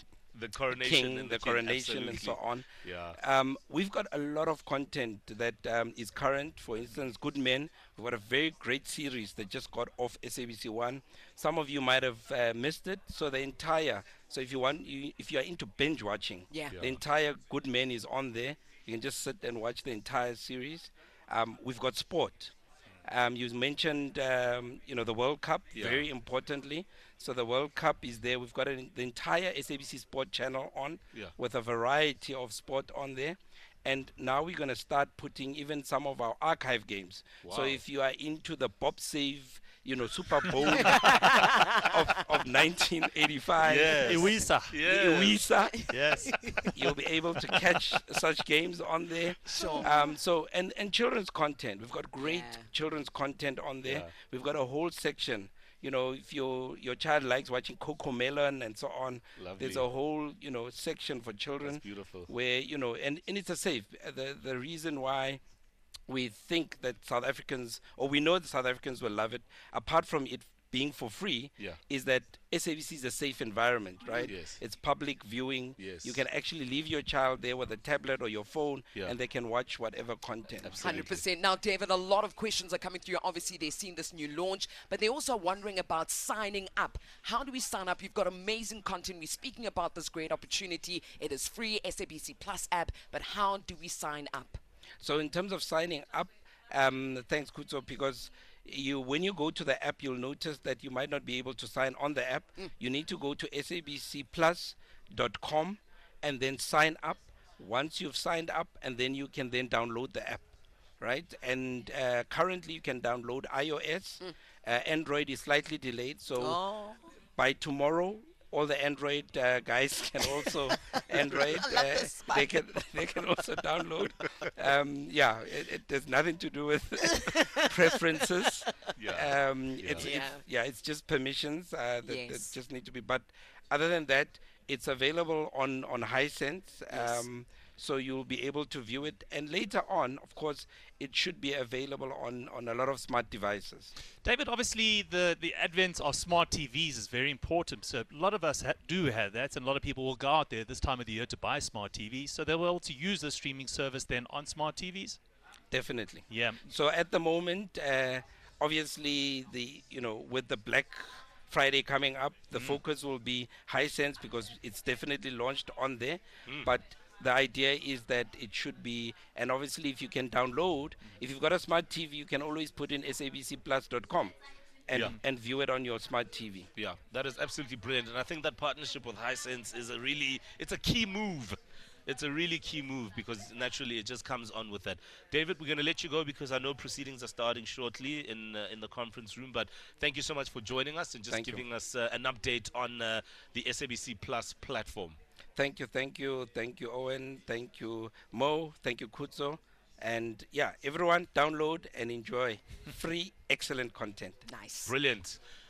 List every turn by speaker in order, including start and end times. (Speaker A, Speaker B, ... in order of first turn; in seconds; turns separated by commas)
Speaker A: 0.3-3.2, Speaker B: 0.7-22.5, Speaker C: 16.5-16.8, Speaker A: 16.7-17.0, Speaker B: 23.0-44.3, Speaker A: 25.8-26.0, Speaker A: 37.4-37.8, Speaker C: 41.1-41.8, Speaker A: 43.6-46.5, Speaker D: 44.0-44.8, Speaker B: 44.9-45.8, Speaker C: 45.8-46.8, Speaker B: 46.7-65.4, Speaker C: 49.5-50.1, Speaker C: 52.2-52.7, Speaker A: 53.8-54.1, Speaker A: 59.4-59.9, Speaker A: 61.6-62.3, Speaker B: 66.1-81.0, Speaker A: 74.2-74.6, Speaker A: 75.8-76.2, Speaker A: 80.6-81.2, Speaker C: 80.8-94.6, Speaker B: 95.0-110.5, Speaker B: 111.0-116.6, Speaker C: 116.4-117.0, Speaker B: 117.3-143.9, Speaker C: 120.7-122.8, Speaker C: 127.1-127.8, Speaker A: 129.0-130.1, Speaker C: 130.0-130.4, Speaker C: 132.0-132.6, Speaker C: 136.9-137.3, Speaker D: 144.2-155.2, Speaker B: 155.7-174.3, Speaker D: 156.3-156.6, Speaker A: 162.6-162.8, Speaker B: 174.9-176.7, Speaker A: 176.8-195.2, Speaker B: 191.3-191.6, Speaker B: 195.6-204.4, Speaker C: 204.4-204.9, Speaker A: 204.8-205.4